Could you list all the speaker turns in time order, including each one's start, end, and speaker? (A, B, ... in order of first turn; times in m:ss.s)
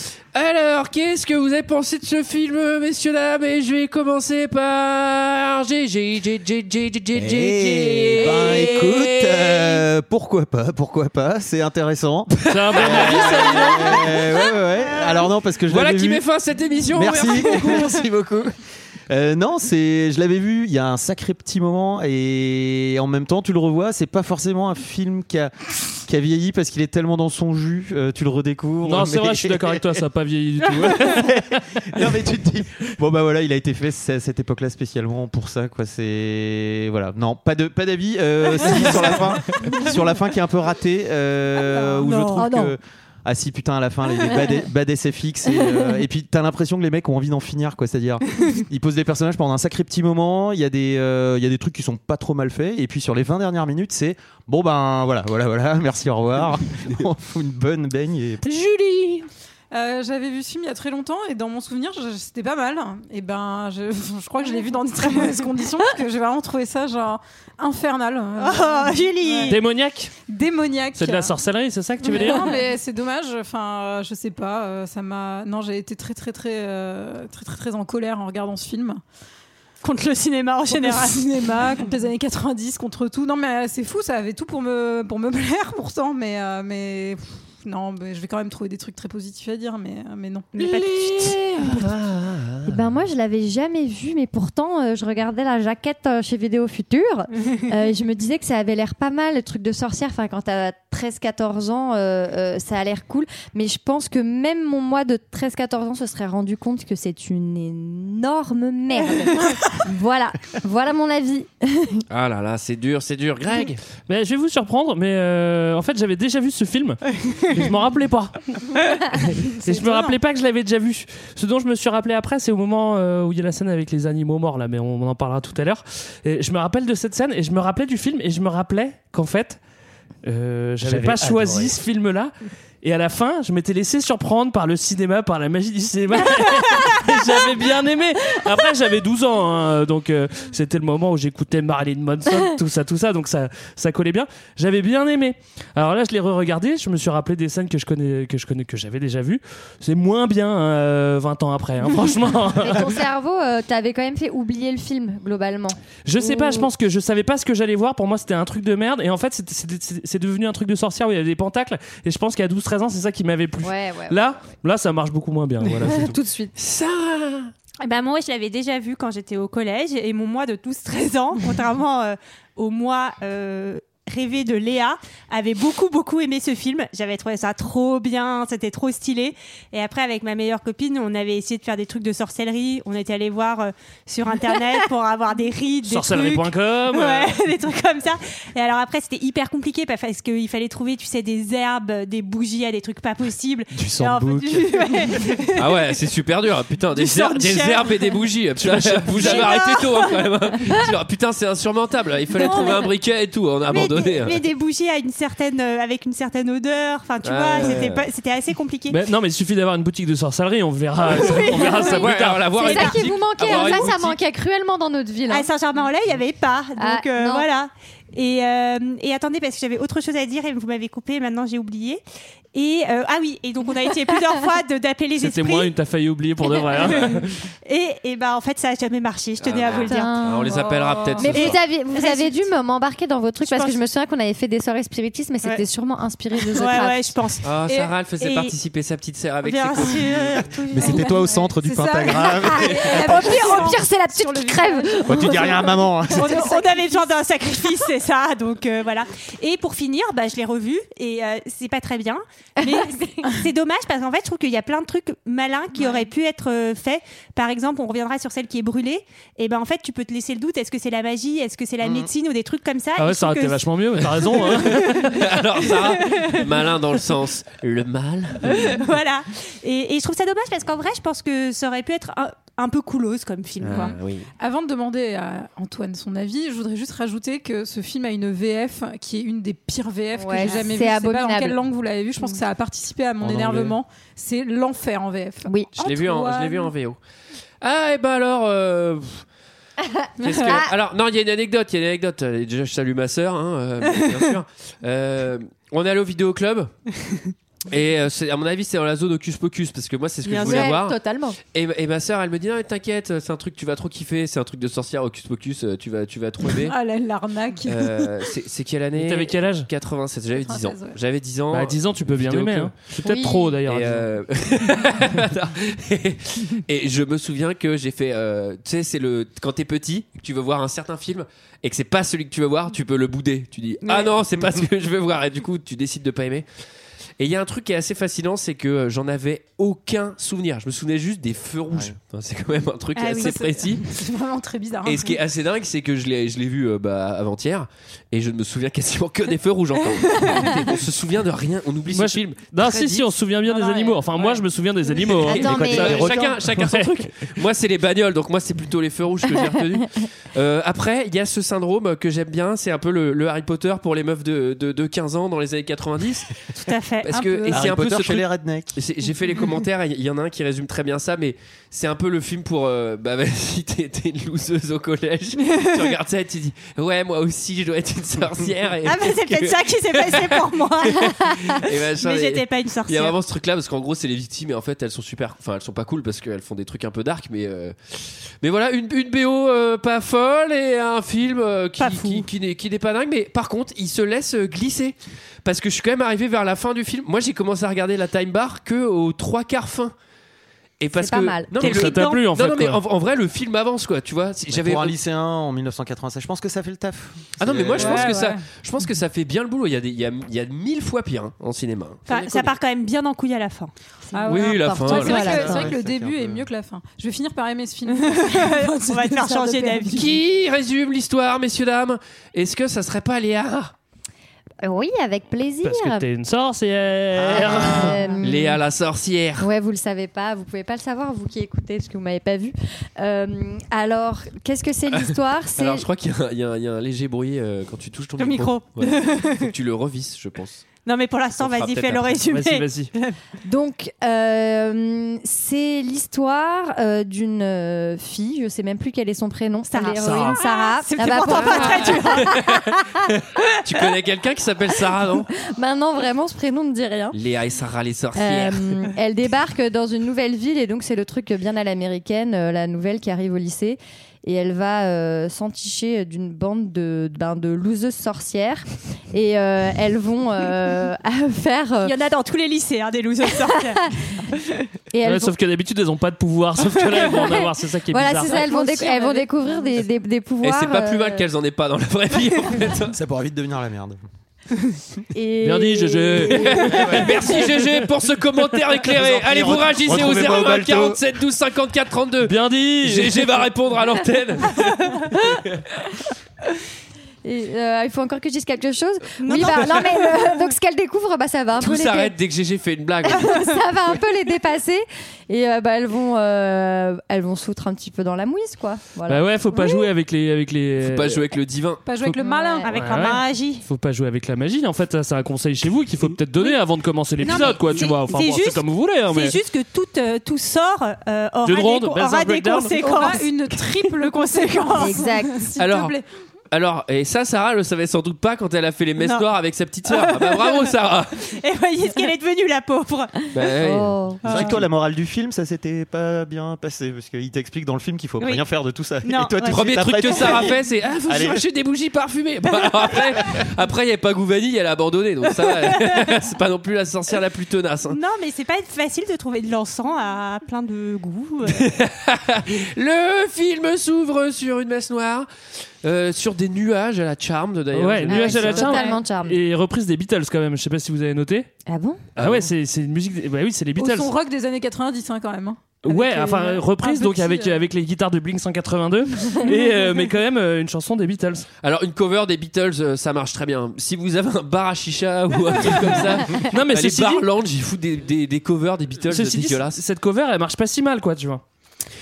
0:00.3-0:09.8 A
0:07.1-0:16.2 B
0:12.5-0:14.2 C
0:12.6-0:14.0 A
0:14.3-0:15.3 D
0:15.7-0:18.0 A
0:16.9-0:18.5 B
0:19.1-0:30.0 B
0:28.8-0:32.0 C
0:30.6-0:58.4 B
0:42.0-0:42.7 E
0:45.6-0:45.9 E
0:58.4-0:59.2 A
0:59.7-1:09.6 F
1:08.4-1:09.6 D
1:09.5-1:10.1 C
1:10.3-1:11.3 F
1:11.0-1:12.5 C
1:12.0-1:19.0 F
1:12.1-1:12.5 D
1:19.8-1:21.2 D
1:20.7-1:30.5 F
1:30.5-1:31.4 D
1:30.6-1:32.8 A
1:32.6-1:52.0 E
1:52.1-1:53.8 A
1:54.1-2:09.6 C
1:59.6-2:00.2 F
2:10.2-2:32.9 C
2:10.8-2:11.8 B
2:32.6-2:36.7 E
2:36.0-2:46.1 C
2:43.6-2:44.3 E
2:45.8-2:46.5 E
2:46.5-2:47.5 A
2:47.8-3:15.7 D
3:05.9-3:07.4 C
3:13.7-3:15.1 B
3:15.6-3:24.4 A
3:16.9-3:18.2 D
3:18.9-3:19.3 C
3:19.1-3:20.1 D
3:22.3-3:22.9 D
3:23.7-3:29.0 D
3:27.2-3:28.0 A
3:28.9-3:32.6 C
3:31.1-3:32.0 D
3:31.2-3:35.5 E
3:31.8-3:34.2 A
3:32.6-3:33.9 D
3:35.3-3:42.0 D
3:36.8-3:37.5 E
3:42.5-3:45.7 D
3:45.2-3:47.4 C
3:46.6-3:50.2 D
3:49.4-3:51.6 A
3:49.8-3:50.7 E
3:50.5-3:51.3 F
3:51.2-3:57.1 E
3:51.3-3:52.5 D
3:53.4-3:53.8 D
3:56.4-3:58.5 D
3:57.4-4:00.5 A
3:59.4-4:01.4 D
4:00.7-4:03.6 B
4:00.8-4:05.1 F
4:02.3-4:05.9 E
4:05.0-4:06.3 B
4:06.1-4:07.1 F
4:06.2-4:23.6 D
4:12.6-4:13.0 E
4:21.8-4:22.1 B
4:23.0-4:25.4 C
4:24.4-4:25.1 D
4:24.8-4:28.8 A
4:25.8-4:26.4 D
4:28.4-4:34.0 D
4:33.6-4:34.3 A
4:33.7-4:46.7 F
4:40.2-4:41.6 E
4:42.2-4:42.4 E
4:43.2-4:43.8 B
4:45.4-4:45.9 E
4:45.8-4:47.0 A
4:47.6-4:49.2 A
4:49.8-4:50.7 E
4:50.2-4:56.7 A
4:57.7-5:06.8 A
5:00.3-5:01.4 E
5:00.3-5:00.8 D
5:06.4-5:08.3 F
5:07.6-5:12.7 A
5:09.0-5:09.7 C
5:10.4-5:11.0 F
5:11.5-5:14.1 C
5:13.0-5:13.6 E
5:13.6-5:26.4 A
5:23.8-5:24.1 D
5:27.2-5:33.9 A
5:33.0-5:33.4 D
5:33.2-5:35.2 F
5:34.8-5:42.5 A
5:41.9-5:47.3 C
5:42.6-5:43.0 F
5:43.5-5:44.0 E
5:43.6-5:45.1 F
5:45.2-5:46.2 E
5:45.2-5:56.3 A
5:45.8-5:46.4 B
5:56.6-5:57.6 D
5:57.0-6:29.9 A
5:57.5-5:58.8 B
6:08.8-6:13.2 D
6:21.8-6:22.2 D
6:30.8-6:34.9 A
6:31.0-6:31.5 E
6:31.6-6:32.2 D
6:31.6-6:32.8 C
6:34.5-6:38.1 B
6:37.4-6:42.5 A
6:37.8-6:38.4 F
6:42.0-6:43.7 D
6:44.1-6:50.1 F
6:44.2-6:45.7 E
6:44.2-6:45.4 A
6:45.2-6:46.4 B
6:48.0-6:50.1 D
6:49.9-6:53.7 A
6:54.6-6:56.0 E
6:55.6-6:58.0 C
6:57.1-6:58.0 B
6:57.7-6:58.6 E
6:58.2-6:59.5 A
6:59.4-7:05.8 E
7:04.9-7:10.6 A
7:08.2-7:09.4 D
7:10.8-7:13.2 D
7:11.4-7:12.2 A
7:12.3-7:12.9 C
7:13.4-7:22.8 E
7:19.7-7:22.3 D
7:20.0-7:20.4 C
7:21.2-7:21.8 F
7:21.6-7:25.3 A
7:25.4-7:27.2 E
7:27.1-7:28.7 A
7:28.1-7:41.9 E
7:41.8-7:43.9 D
7:43.4-7:43.9 E
7:44.9-7:45.4 E
7:45.0-7:48.5 C
7:47.0-7:51.2 E
7:48.3-7:49.3 F
7:50.4-7:53.0 A
7:52.9-7:54.0 B
7:55.1-7:57.6 E
7:55.4-7:57.0 C
7:56.4-8:04.7 A
7:56.7-7:57.0 B
7:58.8-8:01.0 B
8:02.2-8:03.4 C
8:07.2-8:12.1 E
8:09.2-8:10.2 D
8:09.5-8:09.8 A
8:11.6-8:13.4 A
8:13.1-8:19.9 E
8:19.1-8:21.2 C
8:20.8-8:21.8 A
8:21.8-8:22.8 F
8:22.1-8:22.8 E
8:22.6-8:23.6 D
8:22.7-8:29.4 C
8:27.2-8:33.5 D
8:31.4-8:32.8 C
8:32.8-8:36.0 F
8:34.0-8:34.8 D
8:34.8-8:35.5 E
8:35.6-8:36.0 A
8:36.5-8:41.1 A
8:39.0-8:39.2 D
8:39.8-8:40.7 D
8:41.3-8:43.1 D
8:43.3-8:44.6 A
8:43.6-8:44.2 E
8:44.2-8:51.4 B
8:44.2-8:44.6 D
8:49.0-8:50.5 D
8:49.4-8:58.0 A
8:55.4-8:56.1 D
8:57.9-9:01.7 D
9:01.5-9:05.3 A
9:05.8-9:08.8 A
9:07.7-9:11.5 C
9:08.0-9:09.4 E
9:11.7-9:12.0 E
9:12.2-9:12.5 A
9:12.2-9:14.1 C
9:13.8-9:17.6 F
9:15.8-9:21.4 C
9:21.6-9:29.8 A
9:26.3-9:27.3 C
9:29.1-9:31.4 C